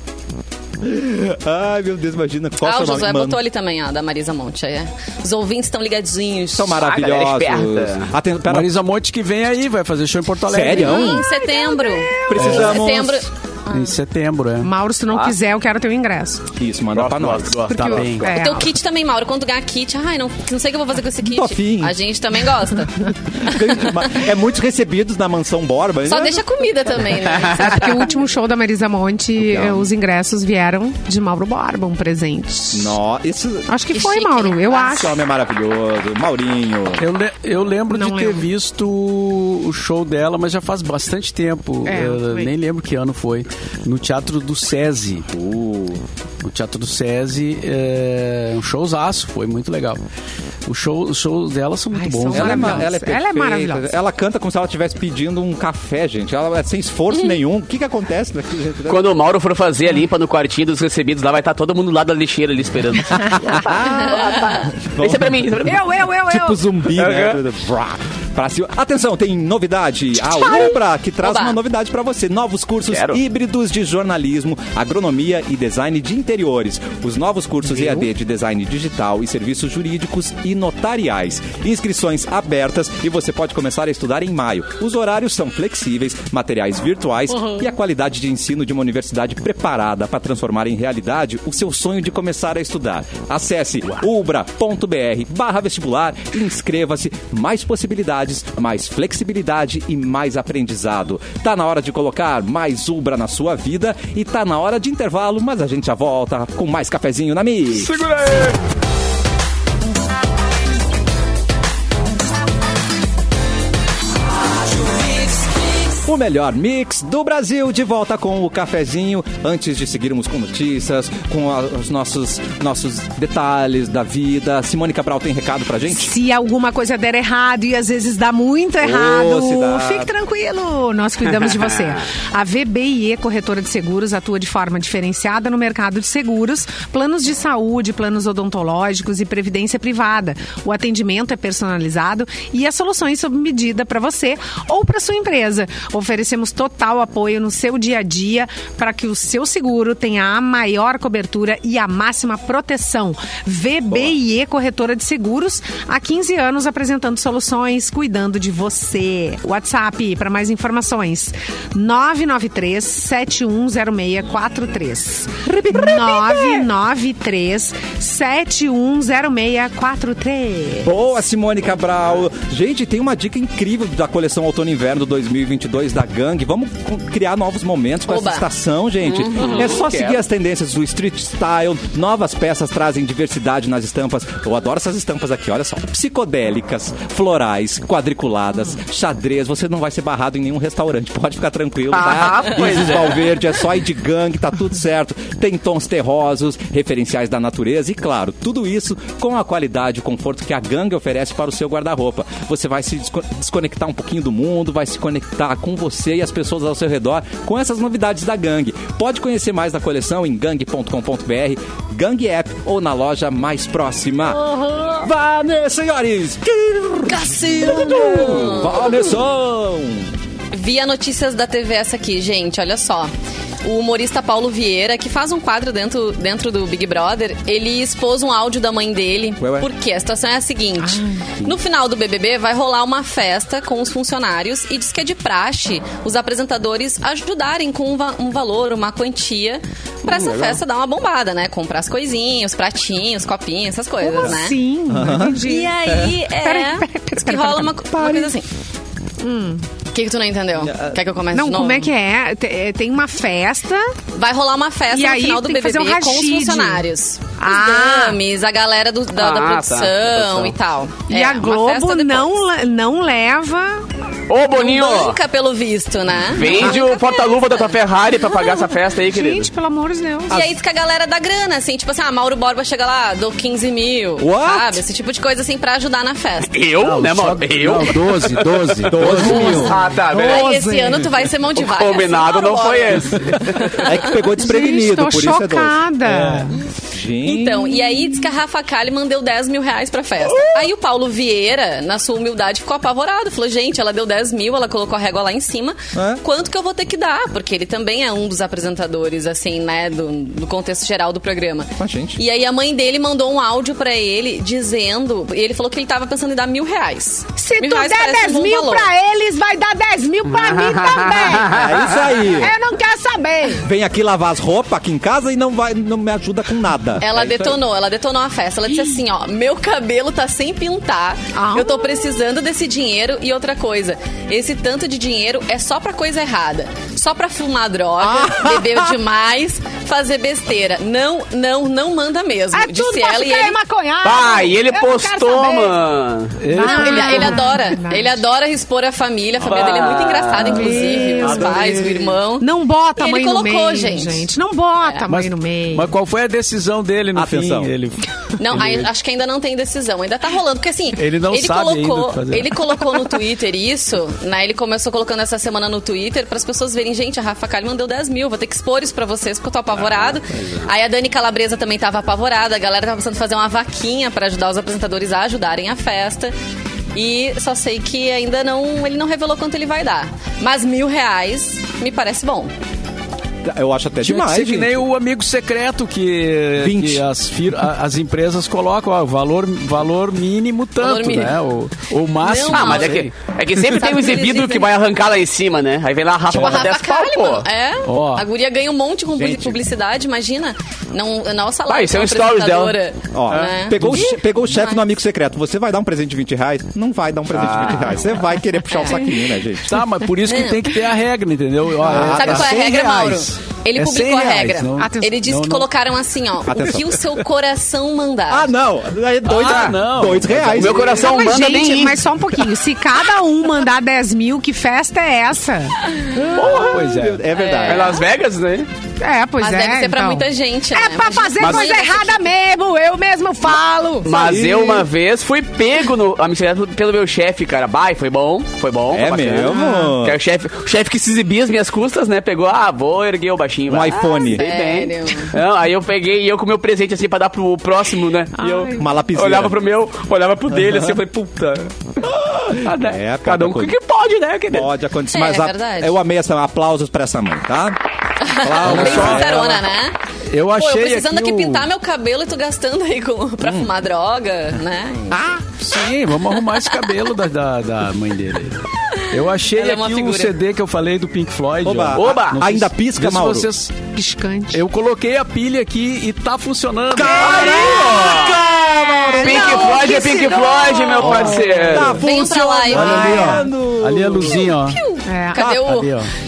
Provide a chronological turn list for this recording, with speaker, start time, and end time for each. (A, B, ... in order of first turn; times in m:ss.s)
0:00.8-0:03.4 A
0:02.6-0:06.8 B
0:06.5-0:08.7 A
0:06.8-0:08.1 C
0:08.5-0:11.1 D
0:10.5-0:11.3 A
0:10.8-0:14.0 B
0:10.9-0:12.8 E
0:12.3-0:13.3 A
0:12.4-0:12.8 D
0:13.7-0:14.7 D
0:14.6-0:16.4 E
0:15.1-0:15.4 C
0:16.6-0:17.6 A
0:17.0-0:18.3 C
0:17.7-0:18.7 E
0:17.7-0:18.4 D
0:18.3-0:23.9 B
0:21.3-0:22.0 A
0:23.4-0:26.4 A
0:26.1-0:28.1 B
0:27.4-0:33.0 E
0:29.4-0:29.9 A
0:32.7-0:33.7 A
0:33.7-0:35.2 E
0:33.9-0:35.0 B
0:34.8-0:37.0 A
0:37.0-0:45.3 D
0:37.9-0:38.5 E
0:41.9-0:42.5 E
0:45.3-0:46.0 A
0:46.4-0:50.0 D
0:50.6-0:52.9 D
0:51.9-0:53.9 E
0:52.3-0:59.1 A
0:58.9-1:05.8 C
1:03.1-1:05.8 A
1:04.1-1:04.5 B
1:05.6-1:06.6 E
1:06.3-1:48.0 A
1:07.0-1:07.4 C
1:10.4-1:11.6 B
1:12.9-1:13.2 C
1:47.8-1:48.6 D
1:56.0-2:06.1 A
2:05.9-2:50.9 E
2:08.8-2:10.1 A
2:33.9-2:34.2 A
2:45.4-2:46.7 A
2:50.8-3:40.1 A
2:58.1-2:58.5 B
2:59.0-3:00.2 C
3:11.9-3:13.2 C
3:34.5-3:35.0 B
3:37.1-3:39.2 B
3:40.5-3:43.1 B
3:43.6-4:04.6 B
3:49.4-3:49.7 A
3:50.8-3:51.3 E
4:00.1-4:00.6 C
4:04.0-4:05.8 E
4:04.9-4:06.2 A
4:05.4-4:08.5 B
4:06.4-4:07.7 E
4:07.9-4:08.3 A
4:09.2-4:09.6 E
4:09.9-4:11.9 B
4:10.6-4:11.0 A
4:11.3-4:14.0 E
4:14.1-4:22.3 B
4:14.9-4:16.8 E
4:17.4-4:18.2 E
4:19.1-4:20.6 C
4:21.1-4:23.9 E
4:24.3-4:25.2 C
4:24.5-4:27.8 B
4:26.1-4:29.5 C
4:29.0-4:30.4 E
4:30.3-4:36.5 B
4:34.2-4:34.8 A
4:36.5-4:40.5 C
4:36.8-4:39.4 D
4:38.9-4:39.8 A
4:39.0-4:41.1 E
4:39.3-4:44.2 B
4:41.6-4:43.8 C
4:43.8-4:45.8 A
4:44.4-4:46.6 E
4:46.0-4:46.6 D
4:46.9-4:47.8 A
4:47.2-5:08.9 B
4:56.0-4:56.2 A
5:01.8-5:02.2 A
5:07.4-5:13.7 E
5:10.3-5:12.0 C
5:11.5-5:12.6 A
5:13.6-5:17.6 A
5:17.0-5:33.6 B
5:21.4-5:21.9 E
5:28.0-5:28.9 A
5:32.5-5:35.8 E
5:34.0-5:36.4 C
5:36.4-5:37.5 D
5:36.5-5:38.1 E
5:36.6-5:44.3 B
5:39.4-5:41.8 C
5:40.5-5:41.7 E
5:41.1-5:42.1 D
5:42.4-5:45.9 E
5:44.8-5:45.1 B
5:45.1-5:48.9 D
5:47.2-5:47.7 A
5:48.4-6:06.3 B
5:51.0-5:52.6 D
5:59.9-6:00.6 C
6:06.9-6:12.5 B
6:13.4-6:14.8 A
6:14.0-6:23.1 D
6:16.6-6:17.1 A
6:20.8-6:21.4 B
6:22.2-6:23.1 B
6:22.4-6:27.5 C
6:23.7-6:24.7 B
6:26.3-6:34.8 B
6:27.8-6:28.3 D
6:29.2-6:29.6 A
6:31.7-6:32.8 C
6:33.1-6:39.7 A
6:37.3-6:38.0 C
6:38.7-6:39.1 B
6:39.6-6:45.7 D
6:40.2-6:40.7 B
6:41.8-6:42.5 A
6:42.0-6:48.5 B
6:44.8-6:45.2 E
6:46.5-6:47.0 A
6:48.3-6:51.0 A
6:49.2-6:50.9 D
6:49.4-6:49.8 C
6:50.6-6:52.0 C
6:50.9-6:55.8 E
6:56.2-6:58.0 A
6:56.4-6:56.7 C
6:56.4-6:57.2 D
6:57.4-6:58.0 B
6:57.6-6:58.7 C
6:59.0-7:04.4 E
6:59.4-7:02.3 B
7:01.4-7:01.7 C
7:04.0-7:24.7 C
7:04.1-7:04.9 A
7:08.9-7:10.2 A
7:09.4-7:10.0 E
7:13.7-7:14.5 A
7:14.3-7:15.4 B
7:18.4-7:18.9 E
7:18.7-7:19.6 A
7:20.5-7:21.0 A
7:22.6-7:23.8 A
7:24.5-7:29.6 A
7:25.1-7:25.9 B
7:28.2-7:30.0 B
7:28.6-7:29.4 D
7:30.3-7:31.7 D
7:30.5-7:35.2 B
7:33.4-7:33.7 A
7:35.1-7:35.4 A
7:35.6-7:43.8 D
7:38.9-7:40.4 B
7:41.6-7:43.5 A
7:41.9-7:42.4 C
7:43.9-7:44.6 E
7:44.5-7:47.7 D
7:46.9-7:49.6 A
7:47.1-7:48.4 C
7:48.8-7:51.7 E
7:49.1-7:52.0 C
7:49.3-7:51.2 B
7:51.0-7:52.0 D
7:51.7-7:54.5 A
7:51.9-7:53.2 B
7:52.7-7:54.8 D
7:52.8-7:53.5 E
7:54.2-7:56.0 B
7:55.1-7:55.5 E
7:55.4-7:56.1 D